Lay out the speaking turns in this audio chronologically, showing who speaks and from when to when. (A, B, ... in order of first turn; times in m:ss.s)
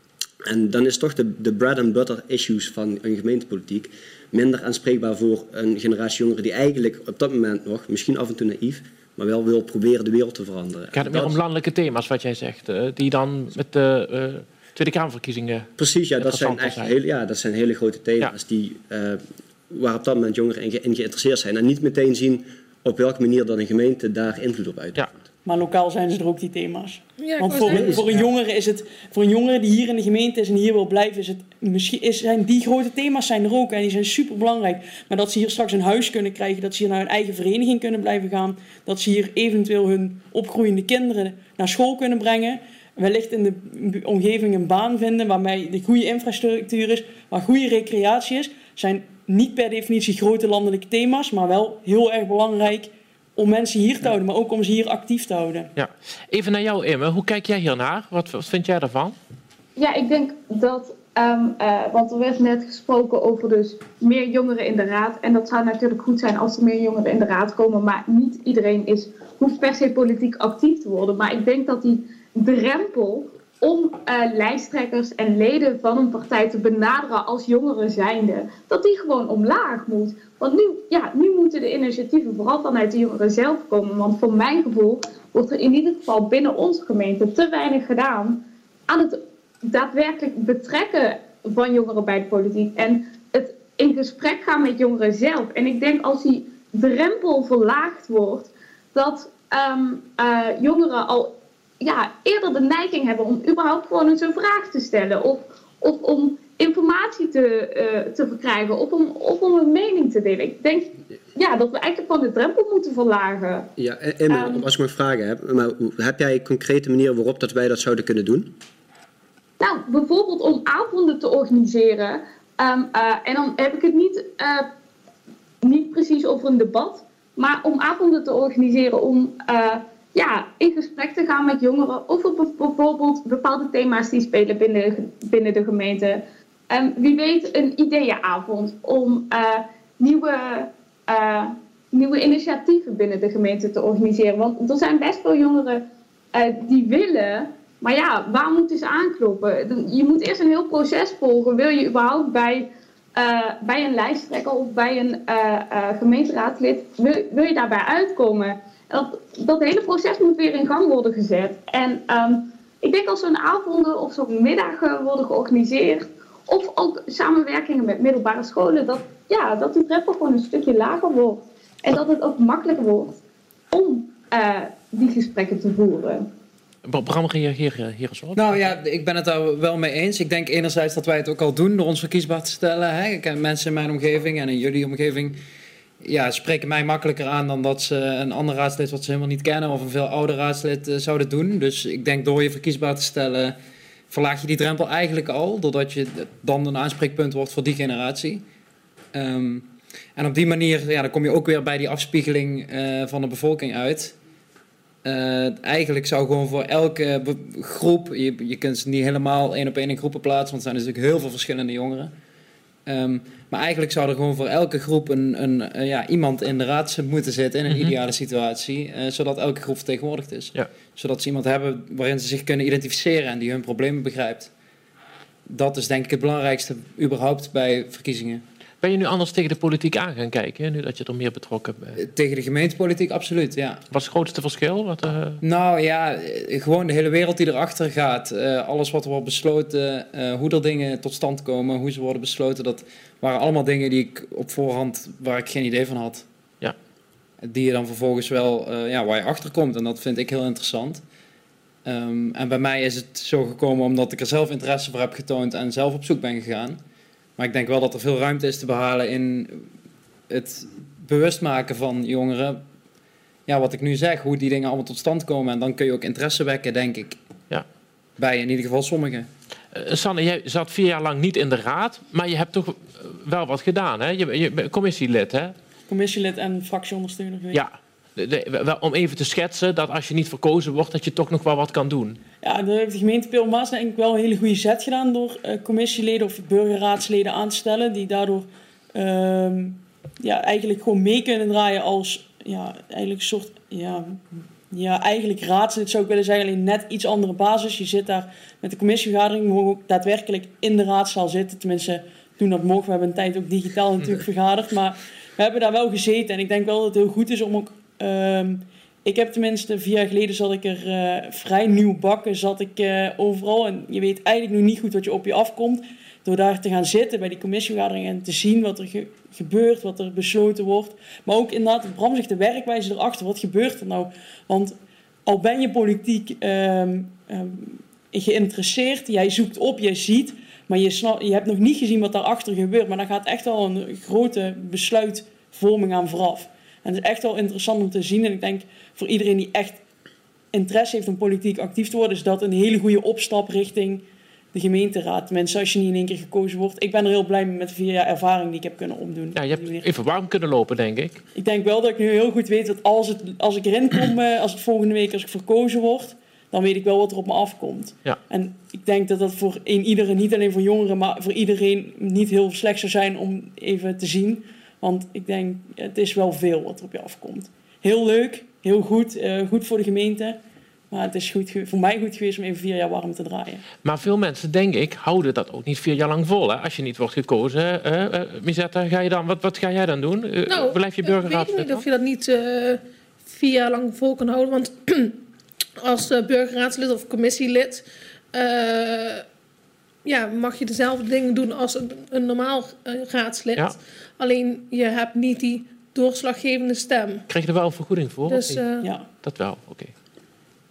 0:00.4-0:11.4 A
0:10.9-0:17.0 B
0:15.8-0:25.2 A
0:25.4-0:55.7 C
0:27.2-0:28.0 D
0:27.6-0:28.2 A
0:55.8-0:59.2 B
0:59.8-1:53.7 E
1:53.8-1:58.5 A
1:54.3-1:54.6 E
1:59.6-2:04.7 E
2:05.6-2:25.8 E
2:26.3-2:53.2 E
2:53.7-2:56.3 E
2:56.8-2:58.8 B
2:58.4-3:05.4 F
3:06.0-3:13.6 F
3:14.1-3:18.4 F
3:19.1-3:24.2 F
3:25.0-3:32.1 F
3:32.9-3:44.5 F
3:37.7-3:38.0 B
3:45.5-3:48.4 F
3:48.8-3:52.0 B
3:52.0-3:53.8 F
3:53.9-3:55.4 B
3:55.4-4:06.3 F
4:07.4-4:11.0 F
4:11.8-4:16.8 F
4:17.4-4:19.7 F
4:20.3-4:22.6 F
4:23.5-4:27.2 F
4:28.2-4:29.3 F
4:29.7-4:35.6 B
4:35.9-4:37.6 C
4:37.5-4:42.2 B
4:42.4-5:39.8 C
5:40.5-5:49.9 C
5:49.4-5:51.2 B
5:51.4-6:10.4 C
6:10.9-6:13.6 C
6:13.8-6:21.8 B
6:20.5-6:25.2 D
6:25.8-6:29.2 D
6:30.0-6:37.3 D
6:37.3-6:39.9 B
6:38.3-6:38.9 D
6:38.8-6:39.1 C